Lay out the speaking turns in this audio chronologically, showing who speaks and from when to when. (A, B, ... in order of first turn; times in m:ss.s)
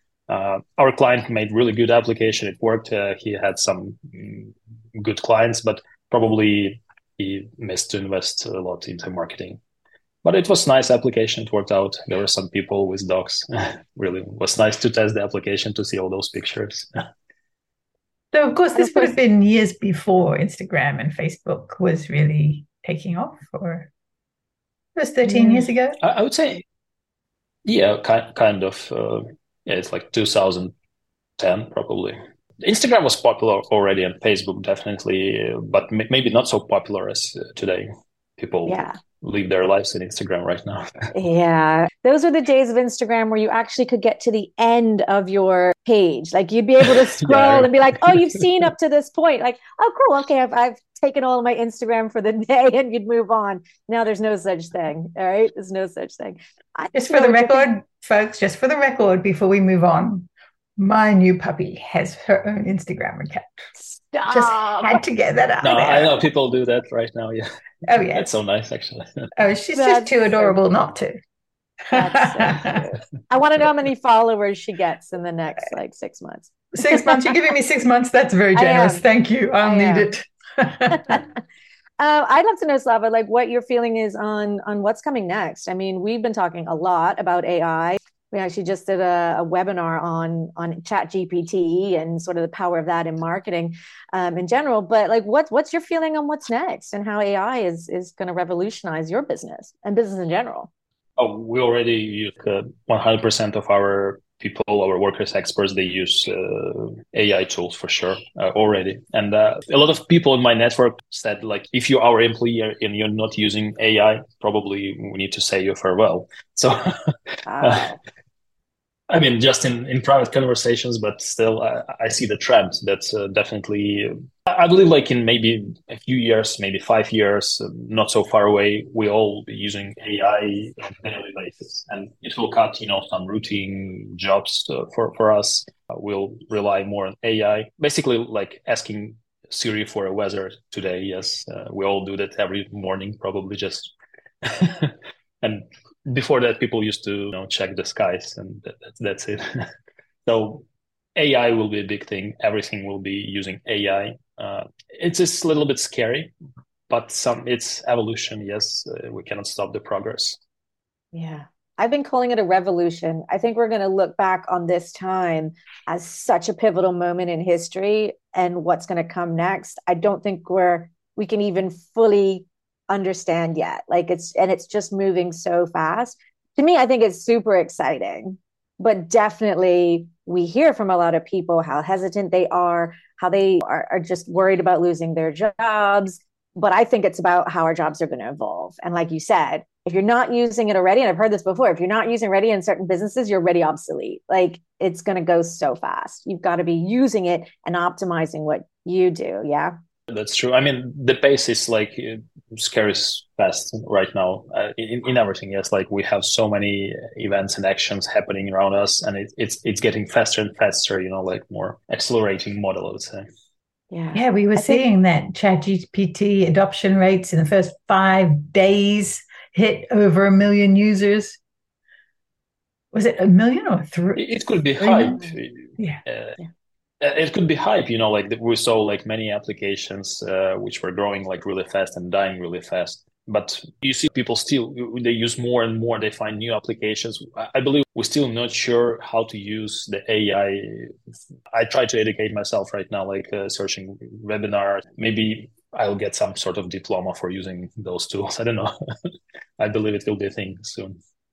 0:00.3-0:09.6 A
0:10.2-0:16.9 A
0:18.3-0:23.9 B
0:25.0-0:26.0 B
0:25.2-0:25.7 C
0:26.0-0:26.6 A
0:27.6-0:30.7 A
0:31.4-0:41.1 A
0:38.7-0:39.0 C
0:41.1-0:57.7 C
0:46.8-0:48.2 A
0:56.9-1:03.7 B
1:03.8-1:05.0 C
1:04.3-1:06.2 B
1:05.6-1:07.4 A
1:07.9-1:08.3 B
1:08.1-1:09.3 A
1:09.4-1:11.2 B
1:09.7-1:10.5 C
1:11.9-1:12.8 B
1:11.9-1:17.4 C
1:16.8-1:21.2 B
1:18.5-1:19.0 C
1:19.6-1:20.1 C
1:22.0-1:40.7 C
1:41.2-1:57.9 A
1:57.4-1:58.0 C
1:59.1-2:29.7 A
2:30.2-2:36.3 A
2:36.9-2:40.4 A
2:41.1-3:19.7 C
3:20.1-3:33.2 A
3:33.9-3:34.8 C
3:34.1-3:41.4 B
3:42.9-3:44.2 B
3:44.2-3:46.4 A
3:44.8-3:45.2 B
3:47.0-4:00.9 A
4:01.5-4:11.0 A